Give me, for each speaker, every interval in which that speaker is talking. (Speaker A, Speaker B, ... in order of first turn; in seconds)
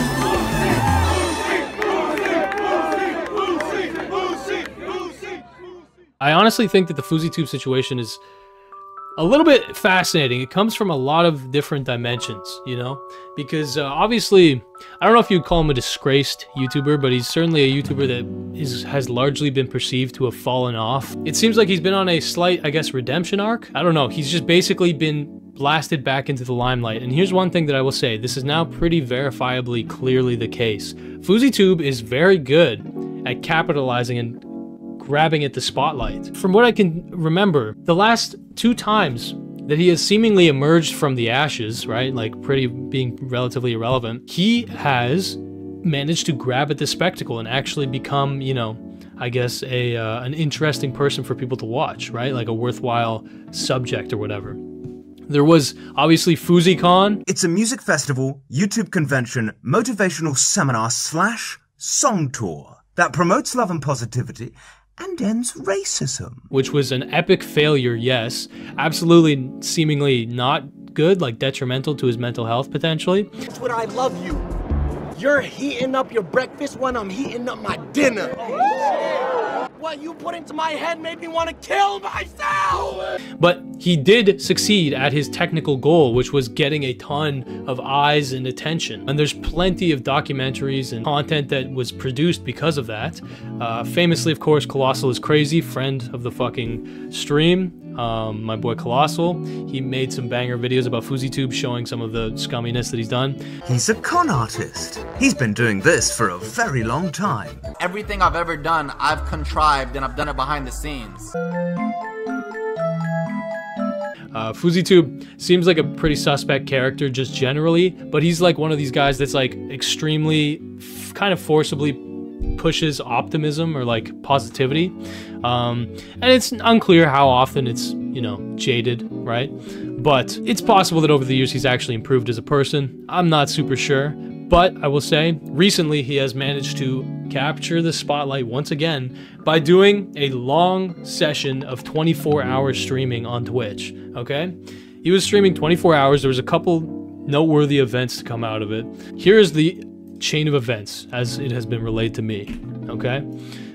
Speaker A: 6.2-8.2, 9.2-34.4, 35.0-54.6, 55.3-57.2, 66.5-73.3, 83.4-103.4, 114.3-122.0, 122.5-153.2
Speaker B: 57.2-66.5, 103.6-107.7
Speaker C: 73.5-74.5, 75.1-83.1
Speaker D: 107.8-111.3